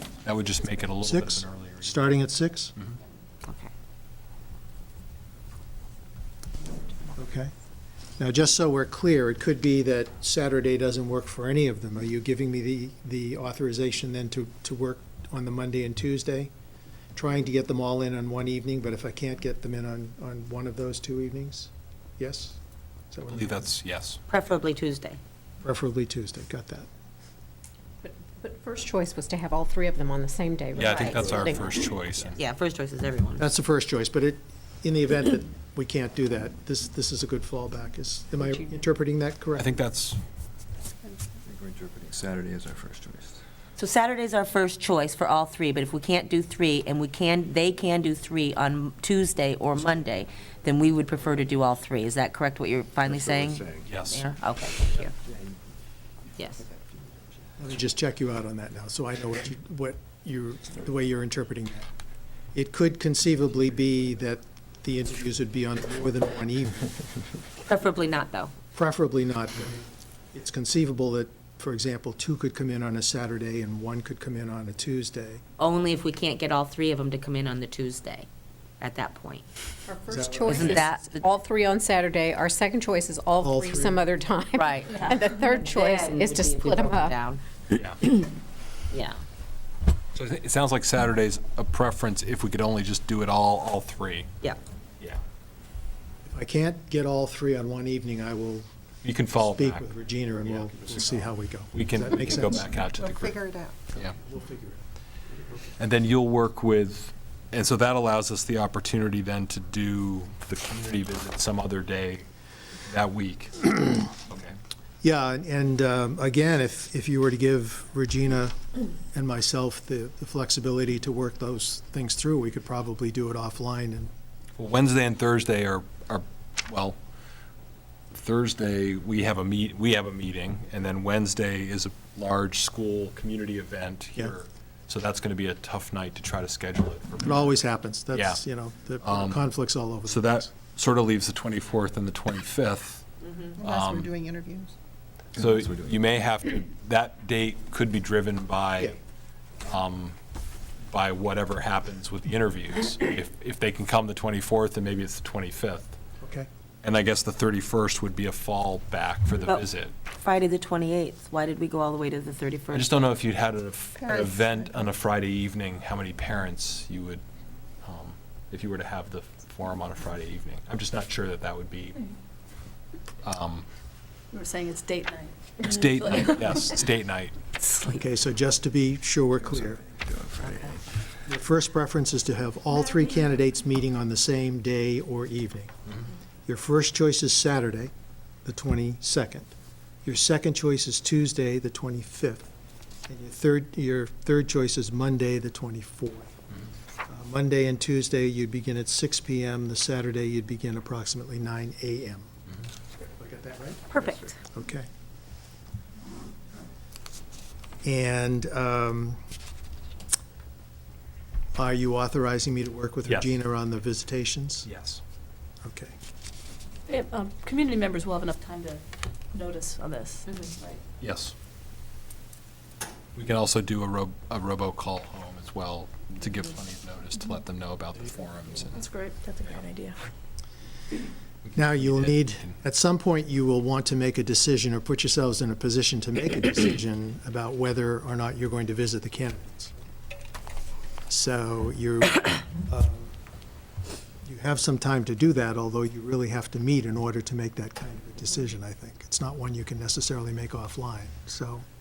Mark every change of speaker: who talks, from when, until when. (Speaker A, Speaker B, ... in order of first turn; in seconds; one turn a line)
Speaker A: 0.2-2.1
Speaker B: 1.0-2.7
Speaker C: 3.4-3.7
Speaker B: 7.2-7.5
Speaker B: 8.2-16.5
Speaker B: 17.1-22.6
Speaker B: 23.1-23.7
Speaker A: 23.3-24.2
Speaker C: 24.3-25.2
Speaker B: 25.6-26.9
Speaker D: 28.0-31.7
Speaker A: 30.8-32.4
Speaker C: 30.8-31.5
Speaker C: 32.3-33.5
Speaker B: 33.4-39.7
Speaker A: 39.6-40.2
Speaker E: 41.5-43.4
Speaker C: 43.8-55.1
Speaker E: 53.0-53.9
Speaker A: 53.8-54.2
Speaker C: 56.4-56.6
Speaker B: 57.6-61.9
Speaker B: 62.5-66.8
Speaker C: 67.7-68.5
Speaker B: 68.7-75.4
Speaker C: 75.6-78.3
Speaker C: 78.8-79.4
Speaker D: 79.9-87.2
Speaker B: 80.1-80.8
Speaker C: 80.5-81.2
Speaker B: 83.4-84.0
Speaker C: 84.5-87.4
Speaker A: 87.7-88.0
Speaker C: 88.9-89.2
Speaker A: 90.1-94.3
Speaker B: 96.2-98.7
Speaker A: 99.0-99.9
Speaker B: 99.3-102.7
Speaker A: 100.5-101.1
Speaker A: 101.7-104.1
Speaker F: 103.0-103.8
Speaker B: 104.0-104.8
Speaker A: 105.8-112.2
Speaker A: 112.9-114.5
Speaker B: 115.0-118.5
Speaker B: 119.1-124.1
Speaker A: 124.5-127.0
Speaker A: 128.1-138.4
Speaker B: 137.2-140.5
Speaker A: 139.0-139.5
Speaker A: 140.1-143.0
Speaker F: 143.6-144.7
Speaker A: 143.6-144.1
Speaker A: 145.3-148.9
Speaker E: 145.4-146.0
Speaker A: 149.6-150.2
Speaker A: 150.9-155.9
Speaker B: 156.2-156.5
Speaker A: 156.8-159.9
Speaker C: 160.2-162.9
Speaker A: 162.7-167.2
Speaker A: 167.8-172.0
Speaker A: 173.2-173.7
Speaker G: 174.3-176.8
Speaker A: 175.6-177.3
Speaker C: 177.6-178.0
Speaker B: 177.9-179.8
Speaker E: 179.6-180.8
Speaker B: 181.2-185.7
Speaker B: 186.5-187.9
Speaker B: 188.4-189.5
Speaker B: 190.0-192.5
Speaker B: 193.1-196.3
Speaker B: 197.1-202.3
Speaker B: 203.2-203.9
Speaker C: 203.9-204.3
Speaker B: 204.5-204.9
Speaker B: 207.8-209.2
Speaker B: 211.6-214.7
Speaker A: 213.1-213.4
Speaker A: 214.6-215.0
Speaker B: 215.6-215.9
Speaker G: 216.9-218.8
Speaker G: 219.3-220.8
Speaker A: 221.0-221.3
Speaker A: 223.1-228.8
Speaker G: 228.7-230.0
Speaker A: 231.5-232.5
Speaker B: 231.5-239.7
Speaker B: 241.1-243.1
Speaker B: 244.2-251.6